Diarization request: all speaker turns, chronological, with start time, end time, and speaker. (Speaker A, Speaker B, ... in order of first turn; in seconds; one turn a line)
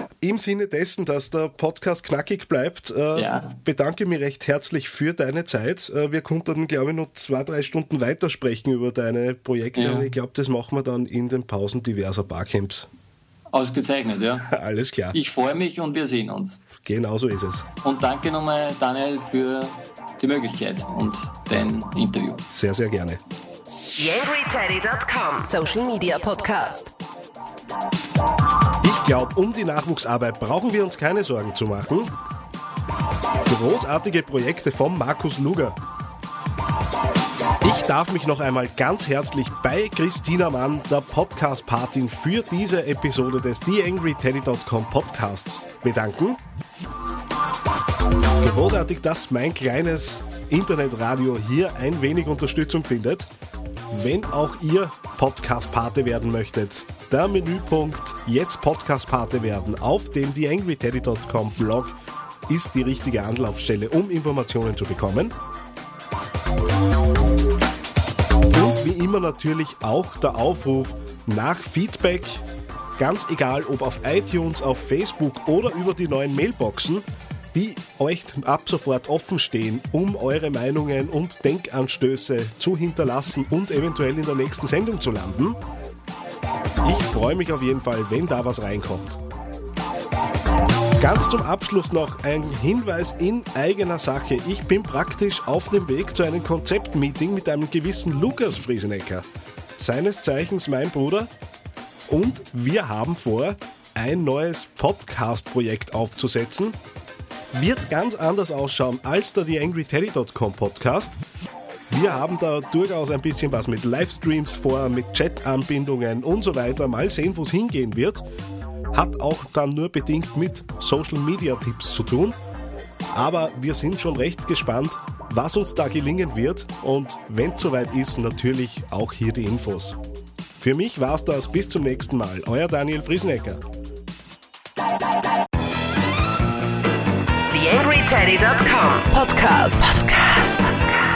Speaker A: 0.2-12.9
Speaker B: 3.1-3.5
Speaker B: 9.8-10.1
Speaker B: 13.5-14.5
Speaker A: 14.5-15.2
Speaker B: 15.1-16.6
Speaker A: 16.8-17.7
Speaker B: 17.8-22.4
Speaker A: 22.5-23.2
Speaker C: 24.0-26.9
Speaker A: 28.8-32.1
Speaker A: 33.5-35.8
Speaker A: 37.6-46.4
Speaker A: 48.4-53.3
Speaker A: 53.9-61.9
Speaker A: 62.5-65.3
Speaker A: 68.5-72.5
Speaker A: 73.0-85.6
Speaker A: 86.8-89.2
Speaker A: 91.0-99.2
Speaker A: 99.8-101.3
Speaker A: 102.1-106.8
Speaker A: 107.5-111.2
Speaker A: 111.9-118.2
Speaker A: 118.9-122.4
Speaker A: 123.1-130.0
Speaker A: 130.6-133.6
Speaker C: 137.5-140.8